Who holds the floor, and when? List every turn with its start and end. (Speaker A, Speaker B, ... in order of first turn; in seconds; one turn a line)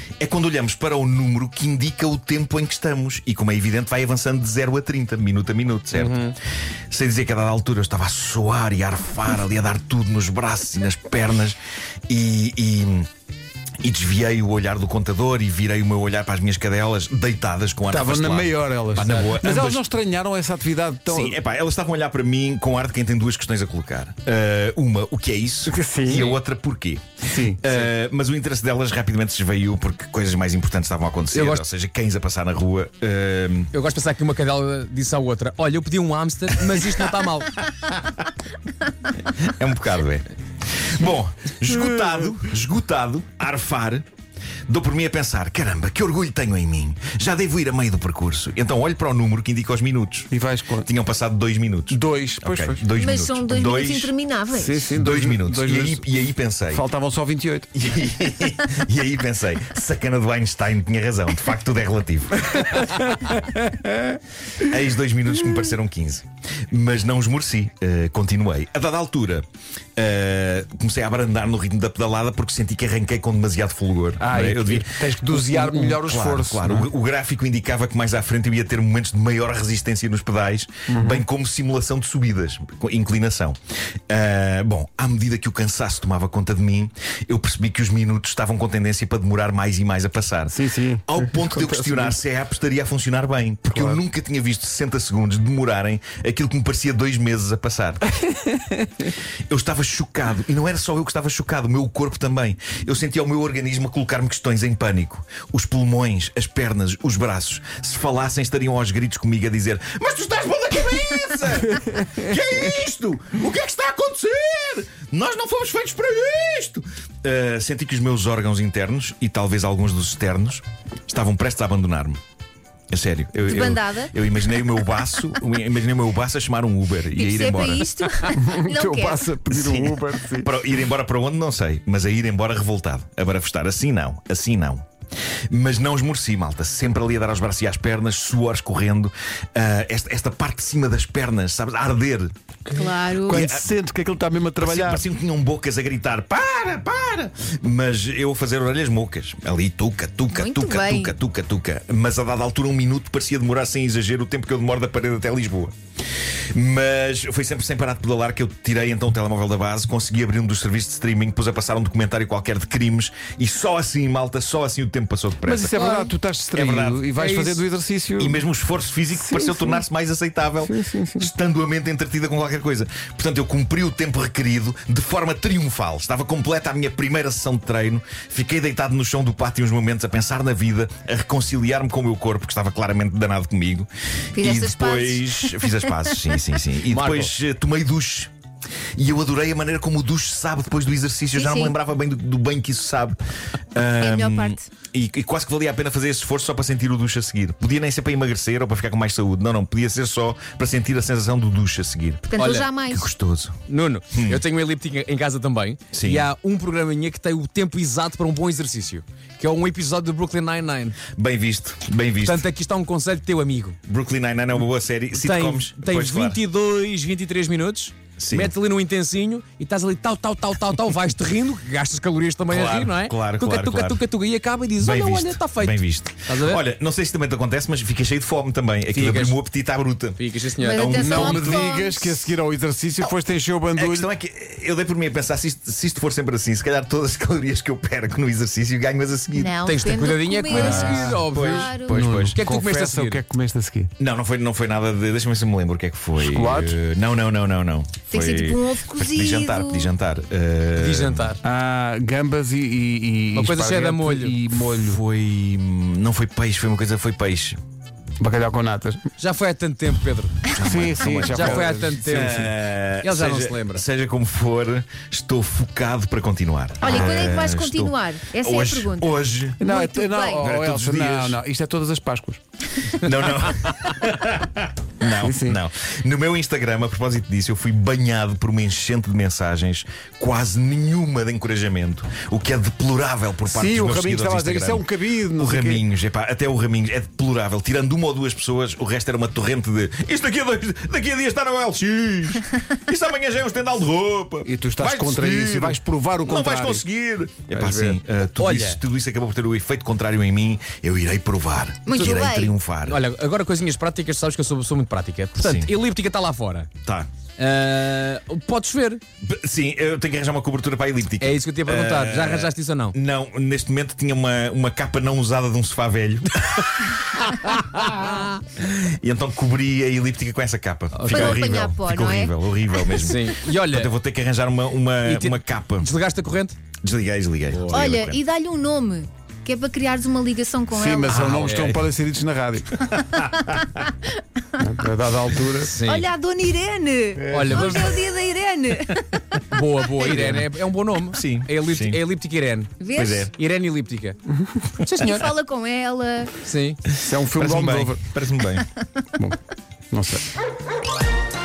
Speaker A: 0.2-6.4
Speaker B: 5.9-6.4
Speaker A: 6.9-13.1
Speaker A: 13.8-19.8
Speaker C: 17.9-21.4
Speaker B: 19.0-19.3
Speaker A: 21.1-33.7
Speaker C: 25.7-26.3
Speaker B: 26.1-26.4
Speaker C: 27.3-27.6
Speaker B: 31.3-31.7
Speaker B: 33.7-37.7
Speaker A: 39.2-40.3
Speaker A: 40.8-44.0
Speaker A: 44.7-50.3
Speaker C: 50.3-50.9
Speaker A: 50.8-54.1
Speaker C: 51.9-52.8
Speaker D: 53.0-54.9
Speaker C: 54.5-56.0
Speaker A: 54.9-56.8
Speaker C: 56.7-57.7
Speaker A: 57.7-62.8
Speaker C: 62.5-64.2
Speaker A: 64.6-69.5
Speaker A: 70.0-83.6
Speaker C: 74.2-76.9
Speaker C: 80.9-81.2
Speaker A: 84.1-98.0
Speaker C: 90.5-92.2
Speaker C: 93.7-94.0
Speaker A: 99.5-122.2
Speaker A: 122.9-128.0
Speaker D: 123.4-124.1
Speaker D: 127.2-129.3
Speaker C: 128.3-130.5
Speaker A: 129.5-134.8
Speaker A: 135.5-142.3
Speaker C: 142.7-145.1
Speaker D: 142.8-143.4
Speaker A: 143.2-143.7
Speaker A: 144.6-155.7
Speaker D: 150.3-151.1
Speaker A: 156.5-165.8
Speaker C: 165.4-168.4
Speaker B: 165.7-166.1
Speaker A: 166.5-167.2
Speaker B: 167.2-167.6
Speaker A: 168.2-188.3
Speaker C: 169.1-169.8
Speaker C: 170.6-171.3
Speaker D: 184.3-185.7
Speaker B: 186.9-187.3
Speaker A: 189.0-193.2
Speaker D: 191.3-191.7
Speaker A: 193.7-202.3
Speaker D: 194.0-194.7
Speaker D: 202.2-203.1
Speaker B: 202.4-202.7
Speaker A: 202.8-203.6
Speaker B: 203.7-211.0
Speaker A: 204.1-204.4
Speaker A: 205.9-206.3
Speaker A: 211.1-212.4
Speaker B: 212.2-213.8
Speaker A: 213.9-216.4
Speaker B: 215.1-226.6
Speaker A: 218.2-218.5
Speaker A: 222.5-224.0
Speaker A: 224.8-231.9
Speaker B: 228.9-229.4
Speaker B: 230.2-231.3
Speaker D: 230.6-232.2
Speaker C: 230.9-234.1
Speaker A: 233.8-239.6
Speaker D: 239.3-242.1
Speaker B: 239.6-241.7
Speaker C: 240.5-243.9
Speaker A: 240.5-242.4
Speaker B: 242.3-243.2
Speaker A: 244.0-251.3
Speaker C: 246.2-246.8
Speaker D: 248.1-249.9
Speaker B: 250.8-251.4
Speaker C: 251.4-255.0
Speaker B: 253.3-254.4
Speaker A: 254.6-257.6
Speaker C: 258.2-259.1
Speaker B: 259.2-263.9
Speaker A: 260.5-269.6
Speaker C: 260.6-262.4
Speaker D: 266.8-270.5
Speaker C: 269.6-272.4
Speaker A: 270.4-271.4
Speaker A: 273.0-303.0
Speaker C: 275.2-275.6
Speaker C: 283.5-285.8
Speaker C: 294.4-296.8
Speaker C: 297.5-298.0
Speaker B: 298.4-298.8
Speaker D: 301.9-302.6
Speaker B: 302.8-306.7
Speaker A: 305.4-305.7
Speaker A: 306.8-307.1
Speaker B: 307.4-309.0
Speaker A: 309.2-317.0
Speaker B: 311.2-312.9
Speaker B: 317.3-318.4
Speaker A: 317.8-325.9
Speaker B: 320.9-321.6
Speaker D: 321.1-322.3
Speaker B: 322.9-323.9
Speaker B: 325.0-326.6
Speaker A: 326.8-328.2
Speaker B: 327.5-327.9
Speaker D: 327.7-331.3
Speaker C: 330.7-332.8
Speaker A: 331.1-331.7
Speaker B: 331.3-331.9
Speaker A: 332.8-333.8
Speaker C: 334.6-335.7
Speaker B: 335.6-336.1
Speaker D: 335.8-339.2
Speaker A: 337.2-337.9
Speaker B: 337.3-338.1
Speaker B: 339.4-344.2
Speaker A: 340.1-340.4
Speaker A: 341.1-342.0
Speaker D: 342.8-343.2
Speaker A: 342.9-343.3
Speaker B: 344.8-345.3
Speaker D: 344.9-346.4
Speaker B: 346.4-346.8
Speaker C: 347.0-348.1
Speaker A: 347.2-348.7
Speaker C: 349.9-350.3